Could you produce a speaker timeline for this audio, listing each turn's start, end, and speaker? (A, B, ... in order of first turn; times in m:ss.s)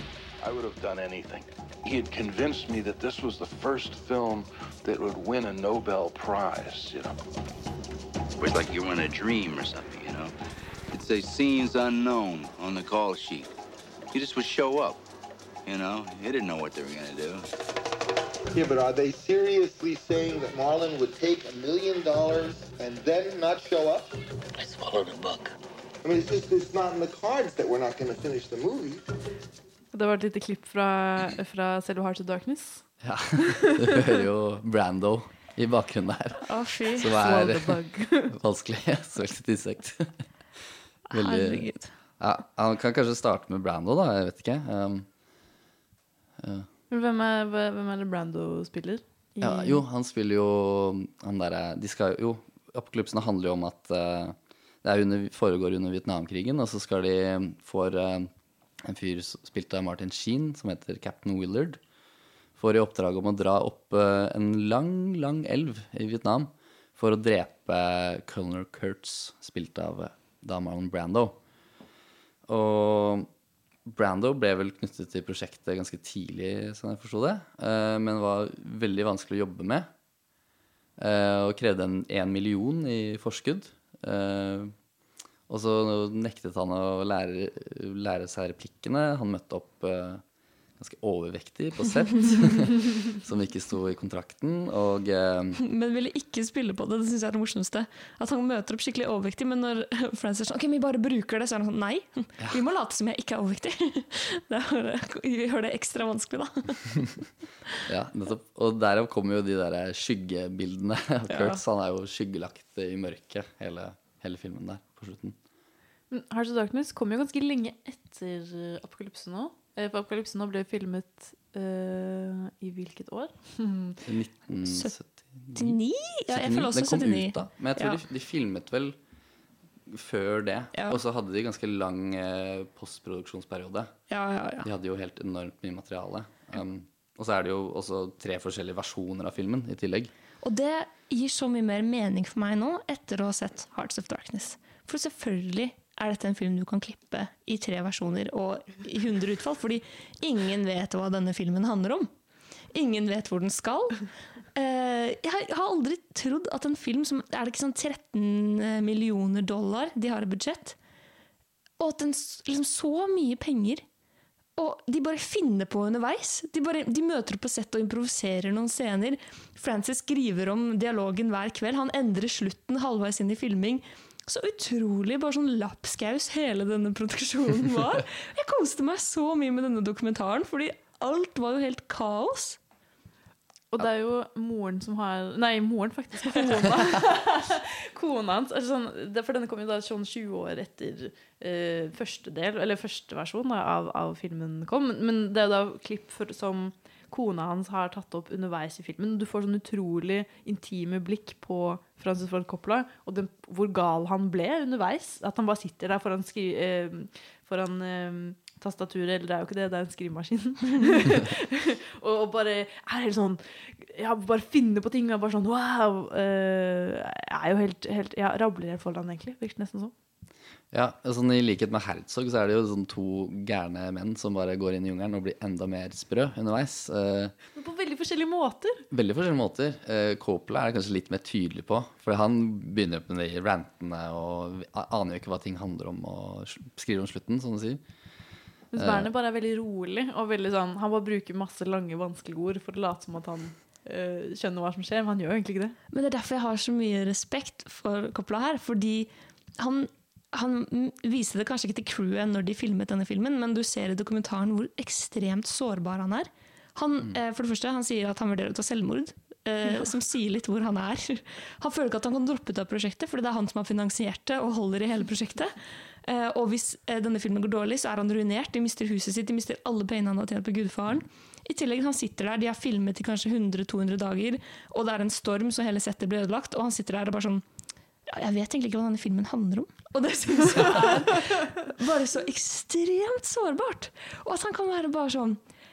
0:00.4-0:07.2 A
0:08.4-0:10.3 B
0:10.9-0:13.5 B
0:14.1-0:15.0 B
0:15.6-0:17.5 B
0:18.5-0:24.0 C
0:26.0-0:29.0 C
0:29.9-0:32.8 D
0:33.0-0:37.8 E
0:36.4-0:37.2 F
0:37.1-0:38.3 D
0:38.3-0:40.1 E
0:41.1-0:41.9 F
0:41.1-0:41.6 E
0:42.2-0:45.1 E
0:46.4-0:46.7 E
0:46.9-0:49.8 D
0:49.4-0:58.3 E
0:58.8-1:01.8 E
1:02.6-1:11.4 E
1:12.5-1:13.3 E
1:13.9-1:19.9 E
1:21.0-1:24.7 E
1:25.5-1:30.2 E
1:30.8-1:35.6 E
1:35.6-1:47.0 F
1:47.9-1:55.4 E
1:51.3-1:51.6 F
1:56.1-2:04.0 D
2:04.0-2:05.8 E
2:04.7-2:04.9 F
2:05.5-2:08.0 F
2:06.3-2:09.0 E
2:09.9-2:13.9 E
2:14.1-2:14.7 F
2:14.6-2:20.1 E
2:20.4-2:32.1 F
2:32.7-2:40.8 F
2:41.8-2:43.8 F
2:44.6-3:02.6 F
3:03.7-3:39.9 D
3:40.7-3:47.3 E
3:47.5-3:48.8 D
3:48.9-3:57.8 E
3:58.7-4:05.8 D
3:58.8-3:59.1 E
4:05.9-4:37.4 F
4:38.1-4:45.4 F